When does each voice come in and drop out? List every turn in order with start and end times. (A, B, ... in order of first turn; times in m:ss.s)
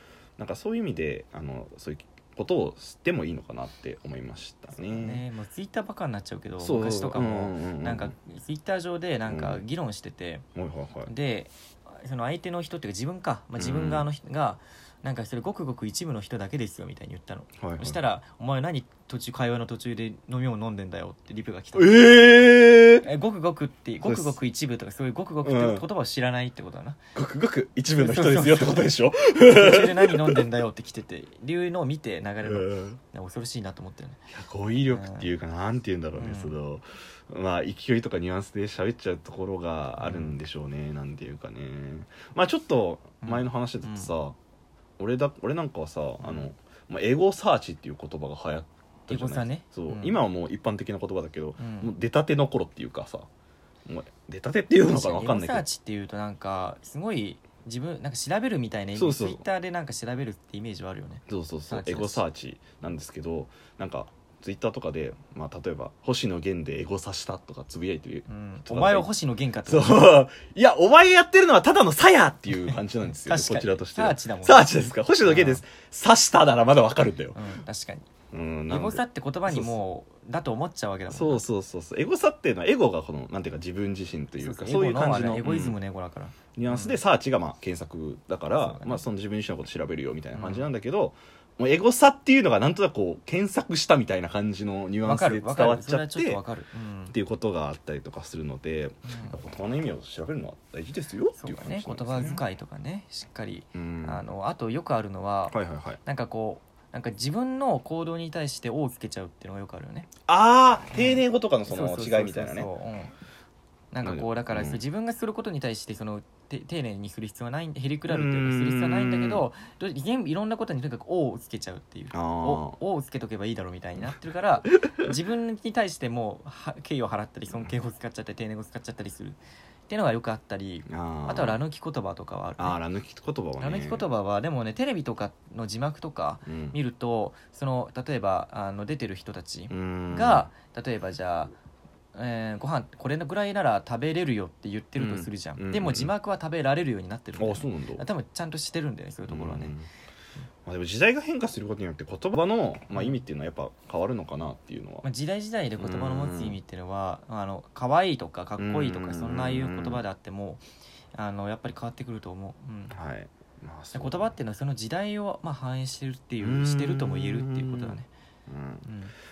0:00.4-0:05.2 A
0:04.7-0:10.4 B
0:06.6-0:08.1 A
0:09.3-0:09.6 A
0:10.5-0:11.1 A
0:11.1-0:22.1 B
0:13.6-0:14.1 A
0:17.6-0:18.0 A
0:21.7-0:23.1 A
0:23.0-0:27.0 B
0:24.0-0:24.4 A
0:25.4-0:25.8 A
0:27.1-0:30.5 A
0:28.0-0:34.2 B
0:32.4-0:33.0 A
0:34.3-0:44.4 A
0:34.9-0:35.3 B
0:36.1-0:36.6 B
0:40.0-0:40.4 B
0:43.2-0:44.1 B
0:45.0-0:53.3 A
0:46.2-0:46.5 B
0:49.1-0:50.2 B
0:51.6-0:51.9 B
0:53.8-0:55.6 A
0:54.8-1:02.2 B
0:58.9-0:59.4 A
1:01.3-1:09.1 A
1:08.3-1:10.2 B
1:09.6-1:17.4 A
1:12.6-1:15.6 B
1:17.3-1:18.1 B
1:18.3-1:19.8 A
1:18.7-1:21.4 B
1:21.1-1:25.8 A
1:24.4-1:27.0 B
1:26.6-1:36.4 A
1:28.5-1:29.0 B
1:30.3-1:30.7 B
1:35.0-1:37.1 B
1:37.1-1:42.4 A
1:39.0-1:39.4 B
1:41.3-1:50.1 B
1:43.7-1:44.2 A
1:45.5-1:46.0 A
1:50.3-1:52.7 A
1:50.9-1:53.1 B
1:53.9-2:12.8 B
1:54.0-1:54.8 A
1:58.1-1:59.5 A
2:02.1-2:02.8 A
2:10.9-2:11.6 A
2:12.6-2:14.1 A
2:13.6-2:21.5 B
2:16.4-2:16.8 A
2:19.7-2:20.5 A
2:22.1-2:29.7 B
2:25.0-2:26.1 A
2:27.4-2:28.0 A
2:29.3-2:29.9 A
2:30.6-2:35.0 A
2:35.0-2:43.0 B
2:35.8-2:36.6 A
2:38.6-2:40.0 A
2:42.9-2:44.4 A
2:43.9-2:48.1 B
2:46.4-2:48.9 A
2:48.8-2:49.1 B